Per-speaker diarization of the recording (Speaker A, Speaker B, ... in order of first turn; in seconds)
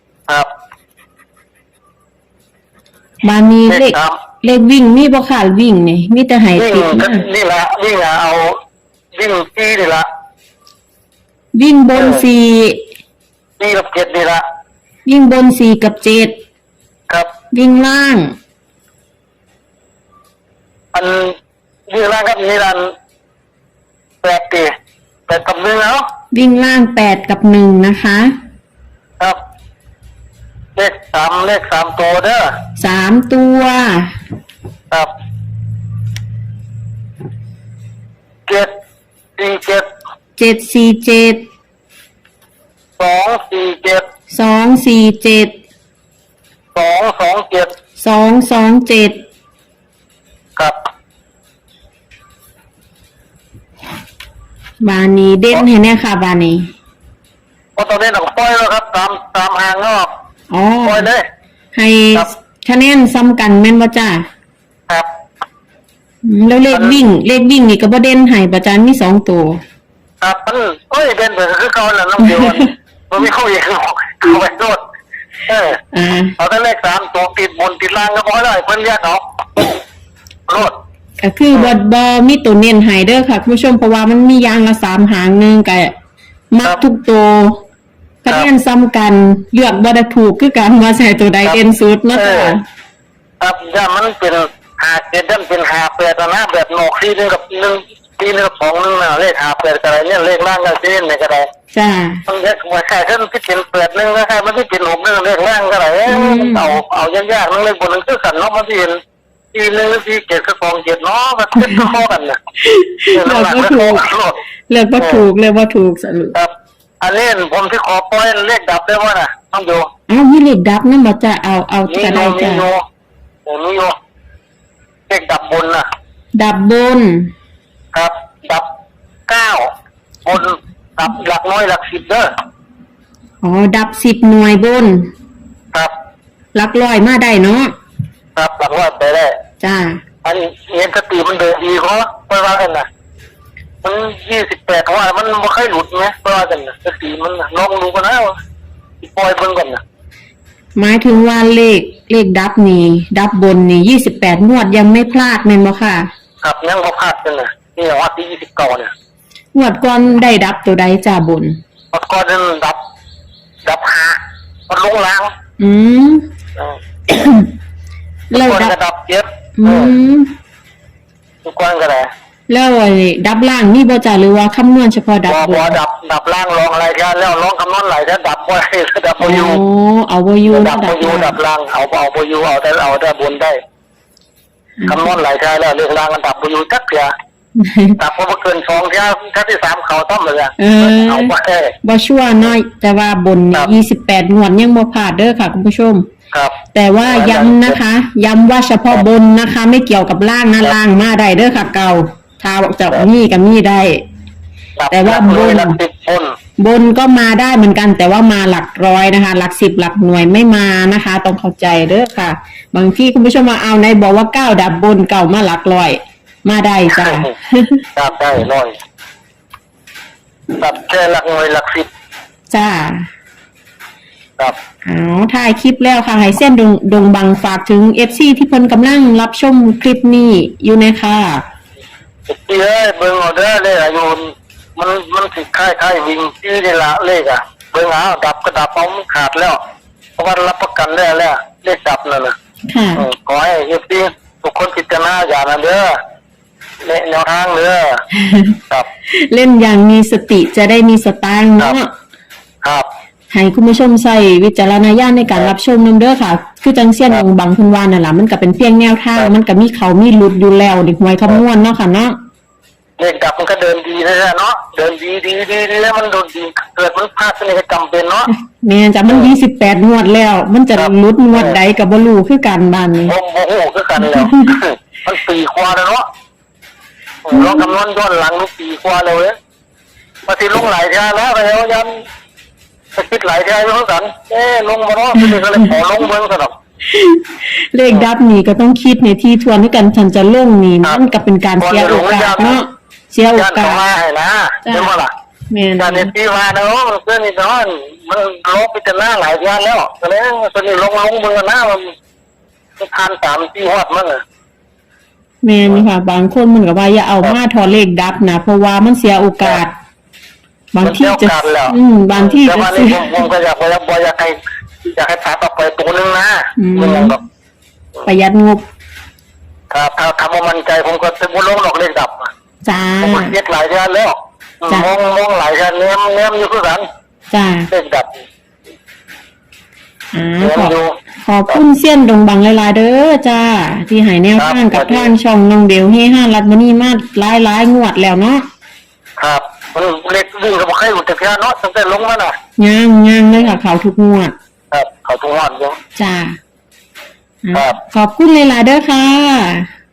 Speaker A: 3.2-7.2, 11.5-12.8, 15.1-16.4, 17.5-18.3, 26.3-28.3, 32.8-34.1, 40.4-41.4, 44.3-45.6, 48.0-49.2, 54.8-56.7, 60.5-61.1, 61.7-64.3, 66.2-69.6, 75.9-76.3, 81.2-85.9, 86.5-87.6, 88.2-92.6, 101.7-102.2, 106.1-106.8, 111.6-111.9, 112.6-114.0, 114.7-116.3, 120.1-122.6, 126.3-127.3, 133.4-135.1, 136.5-137.7, 139.6-140.0, 150.8-156.1, 159.5-161.6, 165.6-166.2, 167.1-167.5, 168.3-168.7, 169.6-170.3, 172.5-175.8, 179.2-181.3, 184.8-185.1, 187.6-188.0, 190.6-191.3, 191.8-196.1, 196.7-204.0, 204.9-205.8, 206.6-217.8, 222.5-223.1, 224.8-231.4, 242.7-243.1, 248.1-248.6, 249.1-251.9, 253.3-262.1, 268.3-273.1, 274.0-274.5, 277.3-277.7, 286.9-293.8, 294.6-294.9, 295.5-296.1, 305.4-309.7, 310.7-313.1, 316.6-317.1, 318.1-318.6, 322.6-323.3, 327.3-327.7, 330.1-338.4, 342.6-344.3, 345.9-346.4, 347.4-349.7
Speaker B: 3.7-4.2, 6.5-8.6, 9.1-10.1, 11.9-12.2, 13.6-14.4, 20.9-21.4, 21.9-22.9, 24.2-24.7, 25.3-26.1, 30.8-32.5, 39.4-39.8, 43.0-44.0, 46.7-47.7, 57.8-60.1, 60.8-61.2, 66.7-67.0, 70.2-74.8, 75.5-75.8, 76.4-79.6, 80.5-80.8, 92.1-92.5, 93.4-101.5, 102.3-109.0, 109.5-112.4, 113.1-114.4, 115.0-115.2, 116.3-119.9, 121.9-122.8, 123.5-124.0, 125.1-125.9, 127.9-128.7, 129.3-129.7, 130.2-132.3, 138.3-139.4, 140.2-142.9, 143.8-148.3, 149.0-149.8, 156.4-158.9, 161.9-162.8, 163.6-165.3, 168.3-169.9, 171.4-172.1, 175.3-179.6, 180.4-183.6, 184.9-187.1, 188.0-191.7, 196.3-197.8, 204.8-206.3, 216.9-217.3, 217.9-218.8, 220.6-221.9, 232.3-239.6, 240.2-242.3, 243.0-246.0, 246.8-248.0, 252.6-252.9, 263.0-268.3, 270.7-271.6, 273.0-276.1, 277.2-279.3, 280.3-282.0, 282.9-286.5, 291.6-292.6, 293.3-295.1, 295.8-301.9, 302.8-304.2, 310.8-317.2, 319.7-322.3, 323.0-326.9, 327.7-328.2, 330.4-330.9, 334.4-335.1, 339.2-342.4, 344.7-345.8